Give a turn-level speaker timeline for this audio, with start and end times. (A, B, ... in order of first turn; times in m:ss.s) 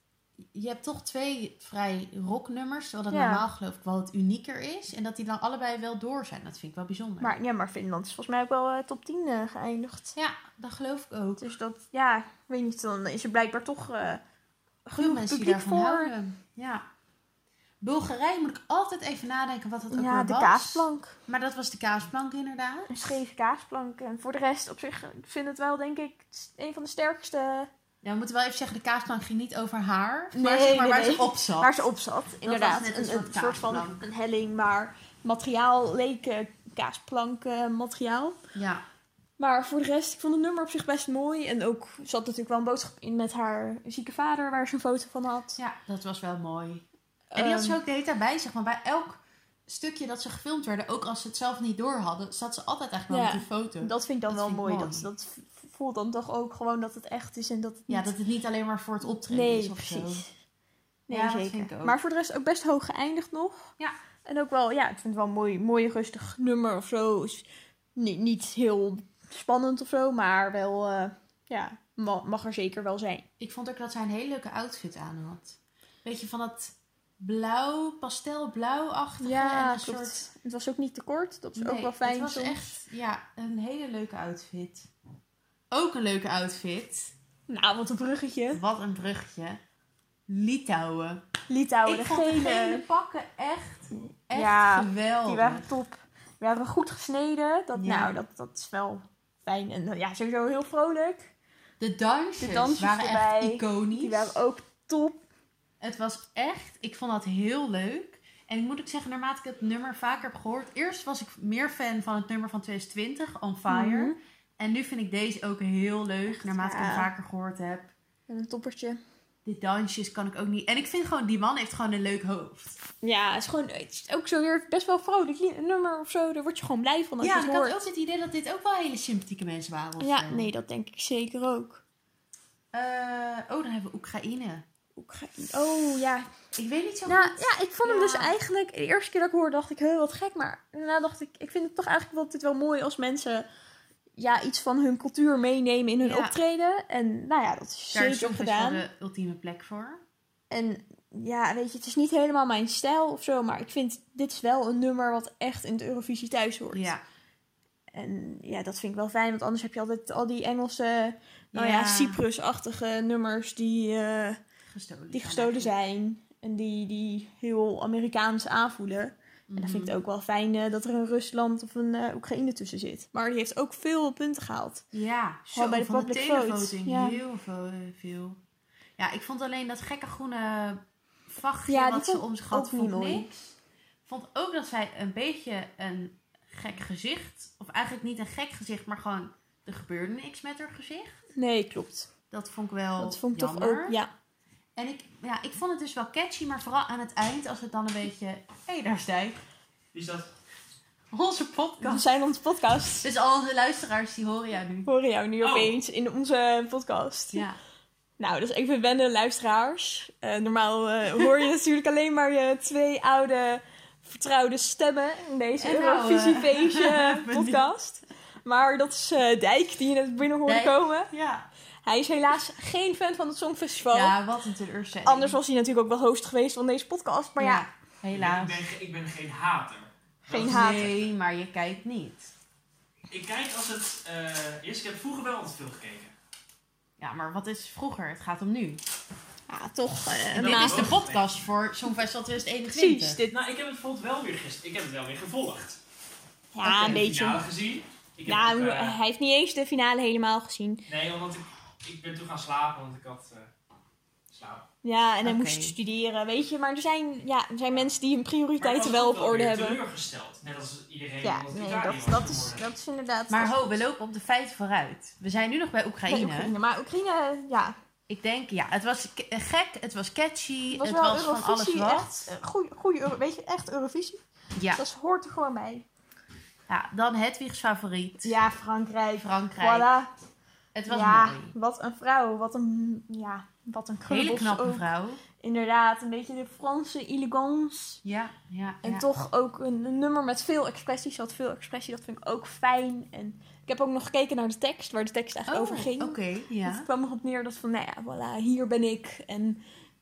0:00.5-0:07.4 A
0:03.1-0:03.4 B
0:07.2-0:10.1 B
0:10.2-0:11.5 A
0:11.4-0:14.2 B
0:14.9-0:16.1 B
0:15.0-0:16.8 A
0:17.8-0:23.0 A
0:19.9-0:21.2 B
0:22.9-0:27.7 B
0:28.0-0:31.7 A
0:30.3-0:38.4 B
0:32.4-0:34.0 A
0:38.5-0:38.8 A
0:39.4-0:45.6 B
0:45.6-0:55.1 A
0:47.3-0:47.8 B
0:53.1-0:58.1 B
0:57.9-1:00.2 A
0:59.3-1:00.3 B
1:01.1-1:03.7 B
1:01.1-1:02.0 A
1:04.2-1:07.4 B
1:08.0-1:13.2 B
1:13.4-1:20.3 A
1:19.2-1:22.7 B
1:21.6-1:24.9 A
1:25.7-1:27.1 A
1:27.5-1:28.6 B
1:28.5-1:29.6 A
1:30.3-1:31.2 A
1:31.5-1:32.8 B
1:31.8-1:35.7 A
1:34.3-1:41.3 B
1:37.8-1:38.2 A
1:41.8-1:44.3 A
1:42.4-1:45.2 B
1:45.8-1:57.9 A
1:53.7-1:54.2 B
1:56.3-1:57.1 B
1:58.3-1:59.0 B
1:59.4-2:02.8 A
2:03.0-2:07.8 B
2:07.2-2:10.5 A
2:10.0-2:11.8 B
2:12.7-2:14.6 A
2:15.0-2:16.2 B
2:16.5-2:18.3 A
2:17.0-2:23.5 B
2:24.2-2:28.8 B
2:26.0-2:26.4 A
2:27.9-2:30.0 A
2:30.5-2:36.9 B
2:36.7-2:37.0 A
2:37.9-2:44.4 B
2:41.5-2:42.2 A
2:44.7-2:45.7 A
2:45.1-2:54.8 B
2:49.5-2:50.0 A
2:54.9-2:58.4 A
2:55.5-2:57.2 B
2:59.0-3:03.5 A
3:01.7-3:03.3 B
3:04.0-3:11.2 A
3:11.4-3:12.1 B
3:12.3-3:14.0 A
3:13.0-3:14.1 B
3:14.8-3:19.4 A
3:19.9-3:20.3 C
3:21.1-3:22.0 A
3:21.8-3:23.0 B
3:23.0-3:24.9 A
3:24.8-3:27.4 B
3:25.4-3:25.7 C
3:27.3-3:27.6 A
3:28.2-3:41.1 B
3:35.6-3:37.7 A
3:40.4-3:41.4 A
3:41.8-3:44.1 B
3:43.9-3:45.4 A
3:45.0-3:47.6 B
3:47.4-3:48.6 A
3:48.1-3:51.1 C
3:50.2-3:50.9 B
3:50.3-3:52.3 A
3:53.1-3:56.1 C
3:57.0-3:58.8 A
3:59.5-4:00.9 B
4:00.3-4:01.2 C
4:00.3-4:03.2 A
4:02.7-4:03.4 B
4:03.3-4:05.8 C
4:06.5-4:07.4 B
4:06.6-4:08.9 C
4:08.2-4:10.8 B
4:10.9-4:13.5 C
4:14.3-4:14.6 C
4:14.8-4:19.8 B
4:15.2-4:15.8 A
4:18.6-4:22.6 C
4:21.2-4:23.8 B
4:23.3-4:26.5 A
4:26.0-4:27.8 B
4:28.1-4:32.3 A
4:30.7-4:34.2 B
4:34.5-4:34.8 A
4:34.7-4:35.8 B
4:36.7-4:38.4 A
4:38.2-4:40.1 B
4:39.2-4:39.9 A
4:40.7-4:41.5 A
4:40.9-4:44.8 B
4:44.1-4:45.2 A
4:45.4-4:48.0 B
4:48.0-4:49.1 A
4:48.8-4:59.6 B
4:55.5-4:56.9 A